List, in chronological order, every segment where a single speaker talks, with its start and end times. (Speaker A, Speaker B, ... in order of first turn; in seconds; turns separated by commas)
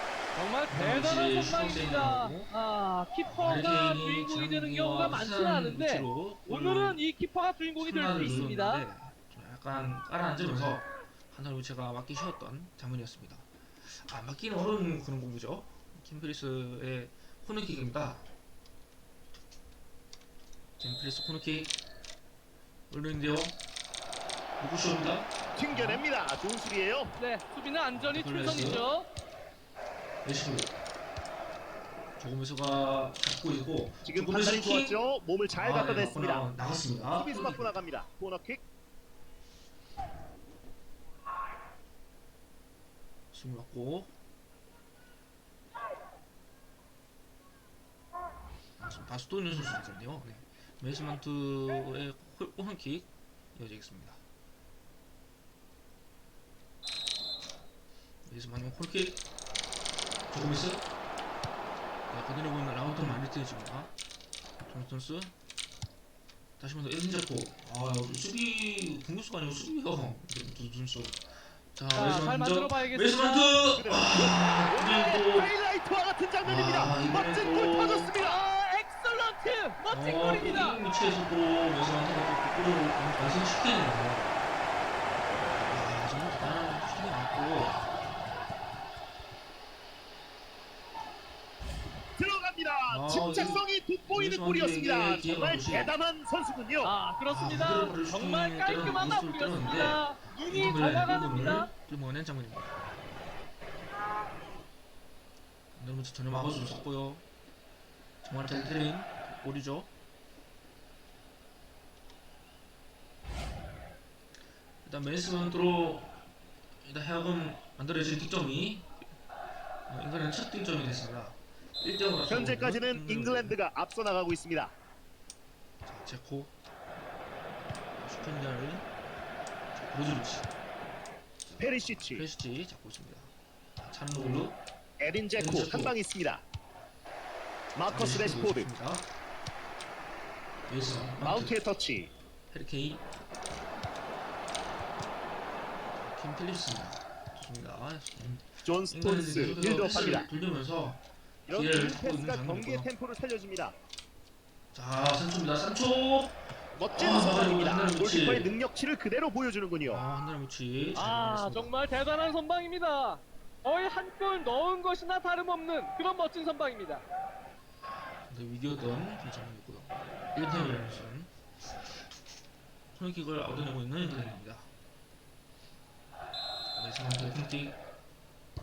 Speaker A: 0.3-8.8, Speaker B: 0.7-2.5, Speaker B: 3.2-7.0, Speaker B: 7.8-18.2, Speaker B: 20.8-21.7, Speaker B: 22.9-23.6, Speaker B: 24.6-26.0, Speaker C: 25.6-27.1, Speaker A: 27.2-29.1, Speaker B: 27.9-28.9, Speaker B: 30.2-30.7, Speaker B: 32.2-35.0, Speaker C: 34.0-36.5, Speaker B: 35.5-37.8, Speaker C: 37.1-38.6, Speaker B: 43.3-44.1, Speaker B: 48.8-54.2, Speaker B: 58.2-59.2, Speaker B: 60.3-60.9, Speaker B: 62.1-63.9, Speaker B: 64.6-65.3, Speaker B: 66.6-75.5, Speaker A: 71.9-73.7, Speaker C: 73.8-78.4, Speaker B: 76.4-78.1, Speaker A: 78.1-80.8, Speaker B: 79.9-84.4, Speaker B: 85.6-87.8, Speaker C: 92.2-96.9, Speaker B: 92.9-95.9, Speaker A: 96.8-101.7, Speaker B: 97.3-102.7, Speaker B: 105.7-107.2, Speaker B: 108.2-109.9, Speaker B: 114.8-116.2, Speaker B: 116.8-118.9, Speaker B: 119.9-123.6, Speaker C: 122.3-124.7, Speaker B: 125.8-126.5, Speaker B: 128.0-128.9, Speaker B: 129.7-130.5, Speaker B: 131.4-134.6, Speaker C: 131.6-132.2, Speaker C: 135.0-136.4, Speaker B: 135.3-135.9, Speaker C: 137.7-138.7, Speaker B: 137.9-139.1, Speaker B: 140.7-141.6, Speaker C: 141.2-142.1, Speaker B: 142.5-143.0, Speaker B: 146.0-152.9, Speaker C: 148.6-150.3, Speaker C: 151.5-153.8, Speaker B: 154.7-158.5, Speaker C: 156.7-160.0, Speaker B: 159.8-161.7, Speaker A: 160.9-167.0, Speaker B: 168.2-171.3, Speaker B: 172.9-174.7, Speaker B: 176.7-177.8